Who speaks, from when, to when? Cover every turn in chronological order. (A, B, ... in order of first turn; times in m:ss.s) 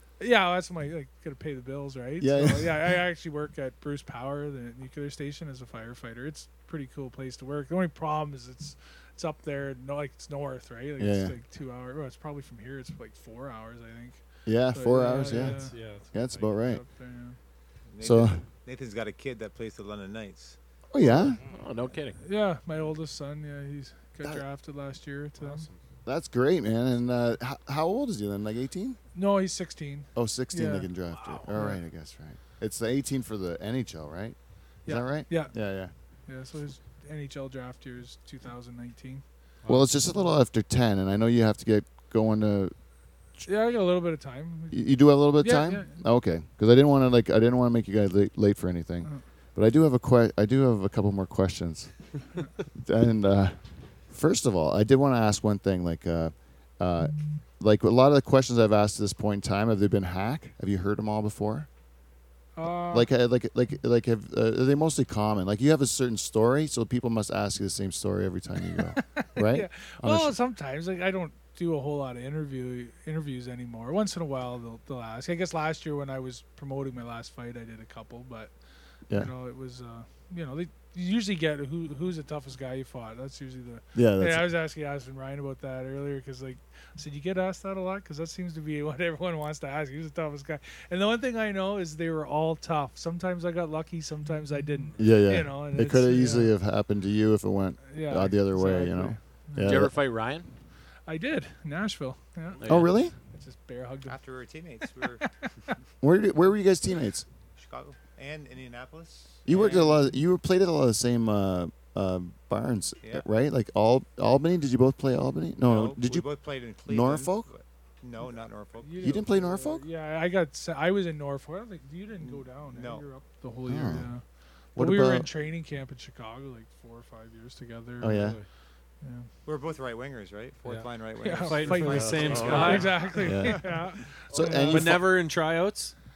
0:00.2-0:17.4 A
0:02.2-0:02.9 B
0:11.0-0:11.4 B
0:14.4-0:16.8 B
0:15.1-0:16.5 C
0:17.9-0:20.6 D
0:18.0-0:18.4 B
0:20.9-0:21.4 B
0:21.0-0:21.4 A
0:21.5-0:22.2 E
0:22.2-0:25.7 A
0:25.4-0:25.8 C
0:26.0-0:29.0 B
0:29.1-0:31.8 A
0:30.1-0:35.9 B
0:34.8-0:35.6 A
0:36.3-0:40.3 A
0:39.7-0:42.7 B
0:43.4-0:46.0 A
0:44.7-0:51.9 B
0:52.8-0:53.6 B
0:54.1-1:01.7 B
1:02.6-1:03.1 A
1:02.9-1:10.3 B
1:08.9-1:18.5 A
1:19.1-1:36.5 A
1:23.9-1:24.4 B
1:35.0-1:39.9 B
1:37.9-1:39.9 A
1:39.6-1:40.5 E
1:41.1-1:42.7 A
1:42.6-1:42.9 E
1:42.7-1:43.1 B
1:43.3-1:44.2 A
1:44.1-1:45.3 D
1:45.4-1:45.7 A
1:46.0-1:47.2 B
1:47.6-1:49.9 D
1:49.4-1:56.3 B
1:55.6-1:59.2 D
1:56.8-1:57.5 B
1:58.8-2:04.2 A
1:59.0-1:59.8 B
2:02.2-2:03.1 D
2:03.7-2:04.1 B
2:04.7-2:05.3 B
2:04.7-2:08.4 A
2:08.0-2:08.4 B
2:08.1-2:08.4 C
2:09.0-2:09.3 A
2:09.4-2:13.7 D
2:10.6-2:13.1 C
2:11.2-2:15.0 A
2:12.3-2:12.7 E
2:13.2-2:13.6 B
2:14.3-2:15.1 B
2:14.5-2:15.9 C